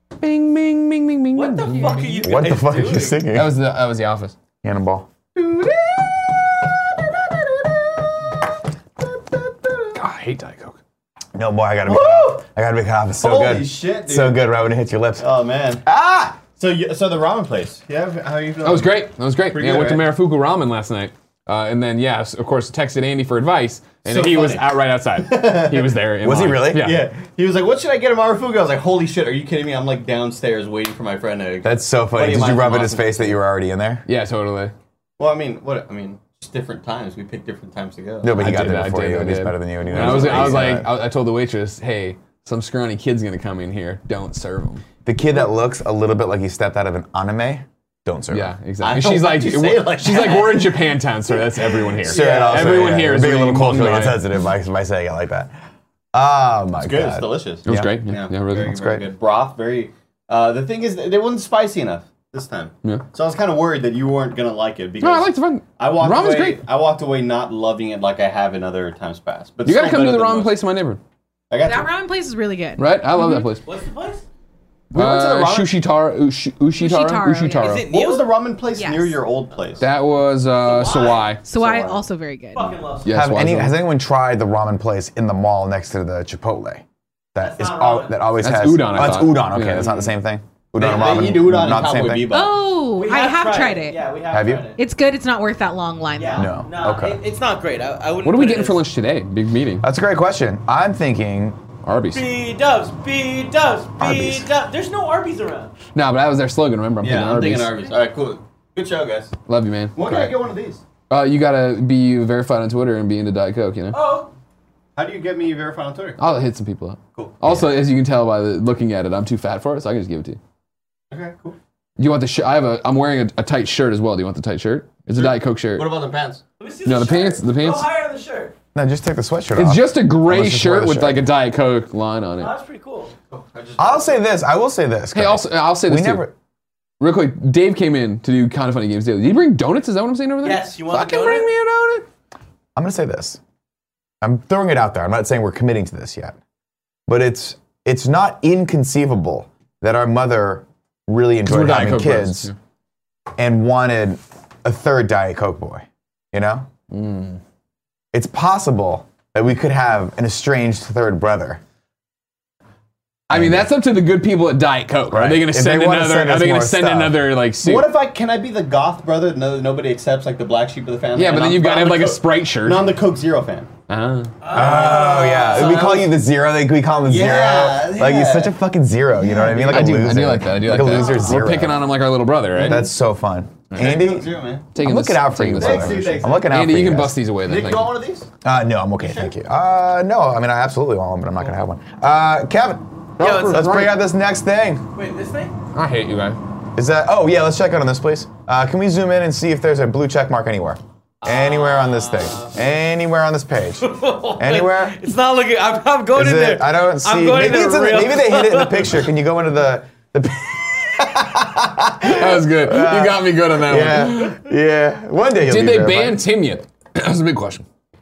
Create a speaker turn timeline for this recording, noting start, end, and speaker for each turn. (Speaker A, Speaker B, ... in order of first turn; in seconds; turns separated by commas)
Speaker A: 0.2-2.4, Speaker B: 1.3-3.2, Speaker C: 2.2-3.6, Speaker A: 3.3-4.3, Speaker C: 4.6-5.1, Speaker D: 5.3-8.3, Speaker D: 9.0-10.0, Speaker A: 9.9-10.8, Speaker C: 11.3-15.2, Speaker D: 11.8-12.4, Speaker D: 13.2-14.4, Speaker D: 15.2-15.8, Speaker C: 15.8-16.4, Speaker D: 16.4-20.1, Speaker A: 18.6-27.0, Speaker D: 24.0-26.0, Speaker C: 26.2-26.9, Speaker D: 26.7-33.3, Speaker C: 31.6-34.0, Speaker A: 34.0-34.7, Speaker D: 35.2-38.3, Speaker C: 38.2-40.9, Speaker A: 38.3-44.8, Speaker D: 39.9-40.7, Speaker C: 45.0-48.5, Speaker A: 48.3-54.2, Speaker D: 48.8-50.6, Speaker D: 51.9-53.0, Speaker C: 52.1-55.5, Speaker C: 56.1-57.9, Speaker D: 56.8-70.5, Speaker A: 57.6-58.7, Speaker C: 58.7-59.0, Speaker A: 65.0-66.6, Speaker A: 69.6-71.0, Speaker D: 71.5-71.9, Speaker E: 71.6-73.5, Speaker A: 72.8-73.6, Speaker B: 73.6-74.2, Speaker D: 74.9-75.8, Speaker A: 74.9-77.8, Speaker E: 76.8-77.8, Speaker B: 77.6-78.3, Speaker D: 77.9-79.8, Speaker E: 78.8-79.2, Speaker A: 79.8-81.4, Speaker B: 80.6-81.3, Speaker E: 81.4-82.7, Speaker D: 81.5-82.0, Speaker B: 82.5-83.1, Speaker A: 83.0-83.8, Speaker C: 83.1-86.8, Speaker C: 87.3-92.3, Speaker B: 87.4-88.2, Speaker A: 88.4-89.9, Speaker D: 90.8-92.7, Speaker E: 92.3-94.0, Speaker B: 92.9-94.8, Speaker C: 94.3-94.7, Speaker E: 94.8-96.5, Speaker B: 96.2-98.8, Speaker C: 96.3-97.2, Speaker A: 98.2-99.8, Speaker C: 99.8-101.6, Speaker A: 101.8-102.2, Speaker B: 102.1-105.7, Speaker C: 104.0-104.5, Speaker A: 105.9-107.8, Speaker D: 107.0-109.3, Speaker A: 109.5-110.3, Speaker D: 109.9-110.8, Speaker A: 111.1-114.0, Speaker B: 113.9-114.3, Speaker D: 115.0-116.2, Speaker A: 116.2-120.4, Speaker D: 121.1-121.6, Speaker A: 122.0-125.9, Speaker D: 125.1-126.4, Speaker B: 126.6-128.6, Speaker A: 126.8-127.9, Speaker C: 128.7-131.3, Speaker A: 129.6-132.5, Speaker B: 132.4-133.1, Speaker D: 133.3-134.2, Speaker C: 133.8-136.3, Speaker A: 135.1-136.3, Speaker A: 137.0-142.1, Speaker B: 140.4-141.5, Speaker C: 142.8-143.4, Speaker C: 144.2-146.3, Speaker C: 147.1-152.5, Speaker A: 151.4-152.5, Speaker C: 153.4-156.7, Speaker A: 156.9-157.4, Speaker C: 158.1-161.6, Speaker A: 163.3-167.9, Speaker C: 163.3-163.7, Speaker C: 165.1-167.2, Speaker D: 167.6-173.7, Speaker A: 171.1-173.0, Speaker A: 173.9-174.3, Speaker B: 174.4-176.1, Speaker C: 174.5-181.8, Speaker D: 174.6-176.0, Speaker D: 177.0-178.5, Speaker D: 179.3-179.7, Speaker A: 179.7-182.9, Speaker C: 182.6-187.2, Speaker A: 183.7-184.0, Speaker D: 183.8-184.7, Speaker A: 184.7-187.9, Speaker D: 185.6-186.5, Speaker D: 187.4-188.3, Speaker C: 188.4-194.8, Speaker D: 189.0-189.3, Speaker A: 193.2-193.9, Speaker B: 193.2-193.6, Speaker B: 194.9-195.5, Speaker A: 195.7-196.4, Speaker C: 196.8-205.0, Speaker B: 201.2-202.5, Speaker B: 203.8-209.0, Speaker C: 206.1-216.3, Speaker A: 212.1-214.4, Speaker A: 215.4-217.7